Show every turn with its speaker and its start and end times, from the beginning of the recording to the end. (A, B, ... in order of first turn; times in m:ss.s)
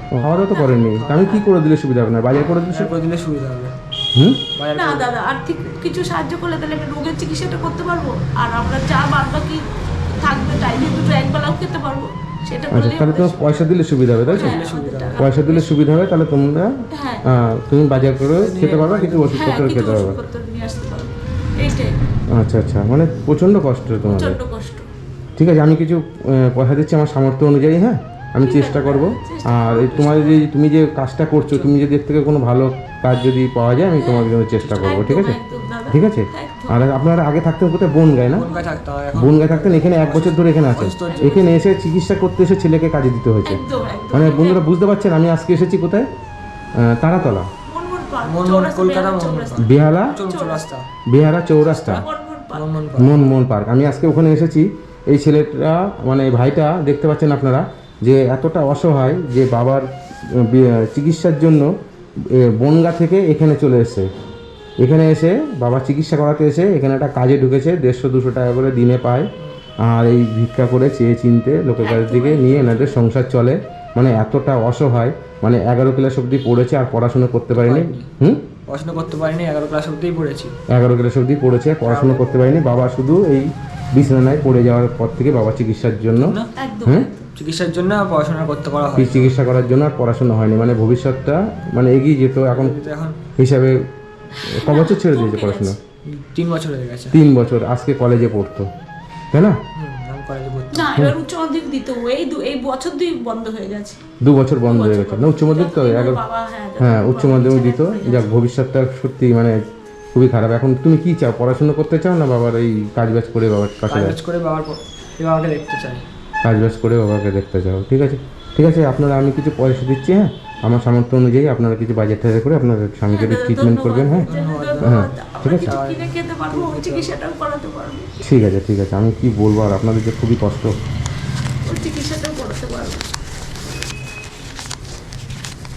0:00.2-0:03.0 A
0:00.5-0:01.4 B
0:00.9-0:01.3 C
0:02.7-0:03.7 C
0:04.1-0:04.4 A
0:04.5-0:05.1 C
0:04.7-0:13.7 B
0:12.7-0:14.6 A
0:14.2-0:16.0 B
0:14.2-0:15.2 C
0:15.2-0:16.7 A
0:16.9-0:17.2 B
0:17.2-0:20.2 A
0:18.3-0:19.4 C
0:19.3-0:21.9 B
0:22.3-0:24.4 A
0:24.0-0:24.9 B
0:25.4-0:35.4 A
0:28.4-0:30.5 B
0:31.4-0:31.7 C
0:33.9-0:36.8 B
0:35.9-0:38.5 A
0:38.3-0:41.5 C
0:38.4-0:38.8 B
0:39.1-0:46.1 A
0:41.0-0:41.4 B
0:43.4-0:44.6 B
0:46.8-0:47.5 A
0:47.6-0:49.7 B
0:48.2-0:50.8 C
0:49.6-0:50.2 A
0:50.2-0:50.6 B
0:51.1-0:52.0 A
0:51.6-0:52.8 B
0:52.5-0:53.2 C
0:53.0-1:01.7 A
1:02.3-1:04.1 A
1:04.8-1:09.3 A
1:09.8-1:18.4 A
1:11.8-1:13.0 B
1:17.5-1:18.1 C
1:18.7-1:20.5 C
1:20.7-1:26.3 A
1:21.8-1:22.6 C
1:26.2-1:26.5 C
1:26.6-1:27.3 B
1:27.4-1:29.4 C
1:29.0-1:32.8 A
1:32.4-1:33.2 C
1:33.4-1:33.8 A
1:34.4-1:35.8 B
1:34.4-1:35.8 A
1:36.0-1:37.2 C
1:37.1-1:38.7 A
1:39.3-1:39.6 A
1:39.7-1:41.0 C
1:40.7-1:44.0 B
1:44.2-1:46.2 A
1:44.6-1:48.3 B
1:46.8-1:49.6 A
1:50.1-1:54.1 A
1:53.9-1:56.0 C
1:56.4-2:04.3 A
2:03.1-2:08.1 B
2:04.2-2:07.2 C
2:04.8-2:05.8 A
2:08.2-2:10.7 A
2:11.6-2:13.1 B